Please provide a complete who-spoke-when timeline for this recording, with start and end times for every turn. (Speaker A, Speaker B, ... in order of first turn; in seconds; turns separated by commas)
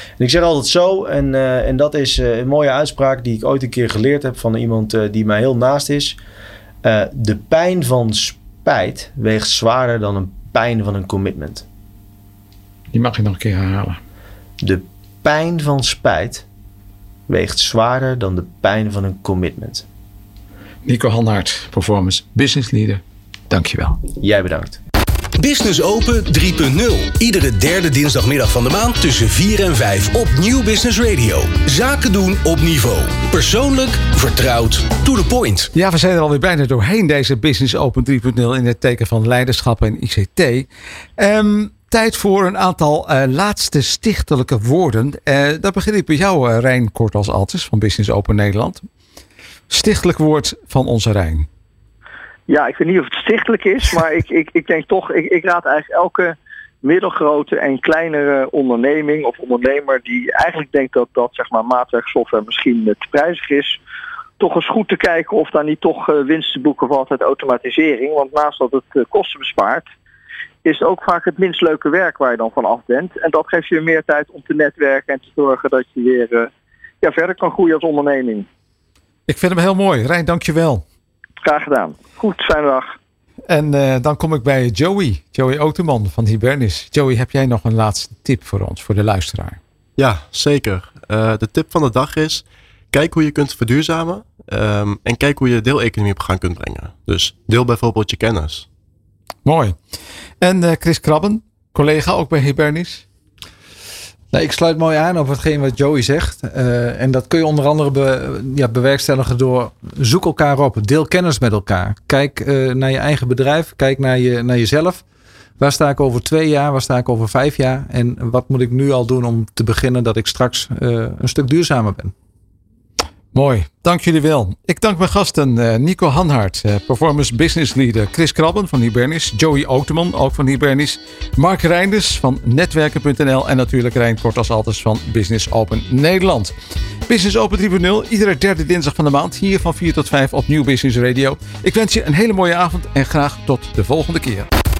Speaker A: 0.2-6.2, Speaker A: 6.8-11.6, Speaker B: 12.9-14.0, Speaker A: 14.6-16.4, Speaker A: 17.3-19.9, Speaker B: 20.8-24.0, Speaker A: 24.2-24.8, Speaker C: 25.4-35.7, Speaker B: 35.7-40.7, Speaker B: 41.2-48.9, Speaker B: 49.7-51.5, Speaker D: 52.5-63.8, Speaker D: 64.4-69.9, Speaker D: 70.6-76.5, Speaker D: 77.0-78.5, Speaker B: 79.3-80.8, Speaker D: 81.4-82.9, Speaker B: 83.5-89.6, Speaker E: 90.0-98.7, Speaker B: 99.4-103.0, Speaker F: 104.3-115.0, Speaker F: 115.6-122.1, Speaker B: 123.3-136.5, Speaker B: 137.1-144.5